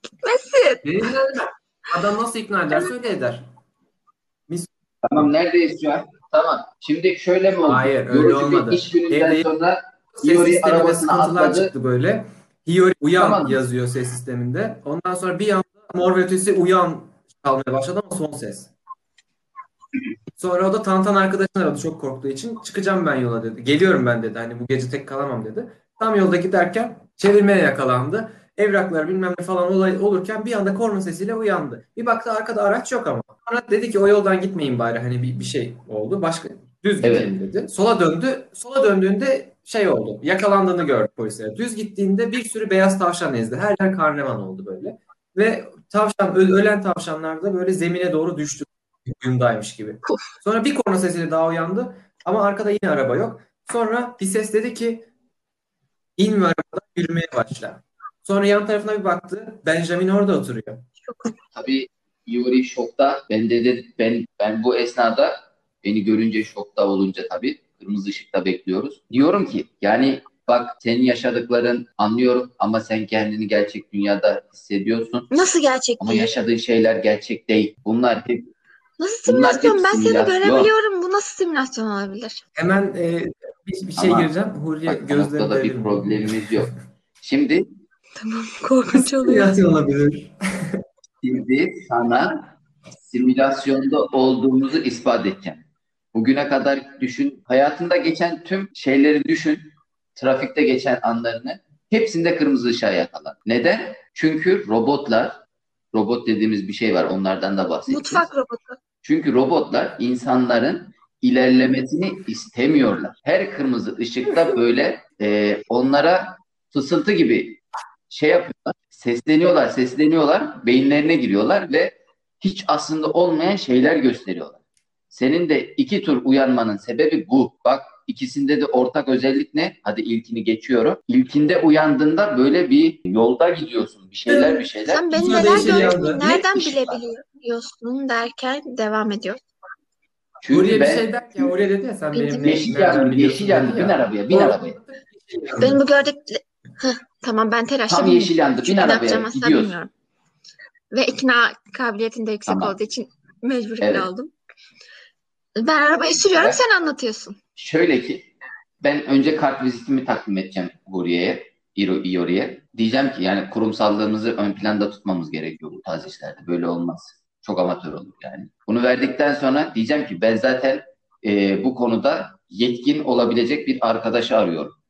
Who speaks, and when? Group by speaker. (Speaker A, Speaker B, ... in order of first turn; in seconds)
Speaker A: 0.2-1.4, 61.0-61.3, 75.3-76.3, 79.0-82.4, 88.2-89.5, 107.9-108.8, 134.9-139.4, 142.1-142.6, 145.6-149.9, 150.9-154.3, 155.6-157.4
Speaker B: 0.8-3.5, 4.5-5.2, 7.7-9.5, 10.2-18.7, 20.4-55.1, 56.2-60.8, 82.5-86.7, 88.9-90.8, 134.3-136.4, 140.5-145.8
Speaker C: 5.0-11.7, 13.2-13.6, 37.0-37.3, 61.5-75.3, 76.0-78.5, 79.2-80.7, 84.0-84.3, 84.8-87.7, 91.2-92.5, 93.0-105.4, 105.9-108.3, 109.0-124.6, 125.1-137.0, 140.4-141.5, 142.4-144.8, 147.9-149.8, 152.4-152.7, 153.8-154.1, 156.3-156.6, 157.6-158.3, 158.8-174.7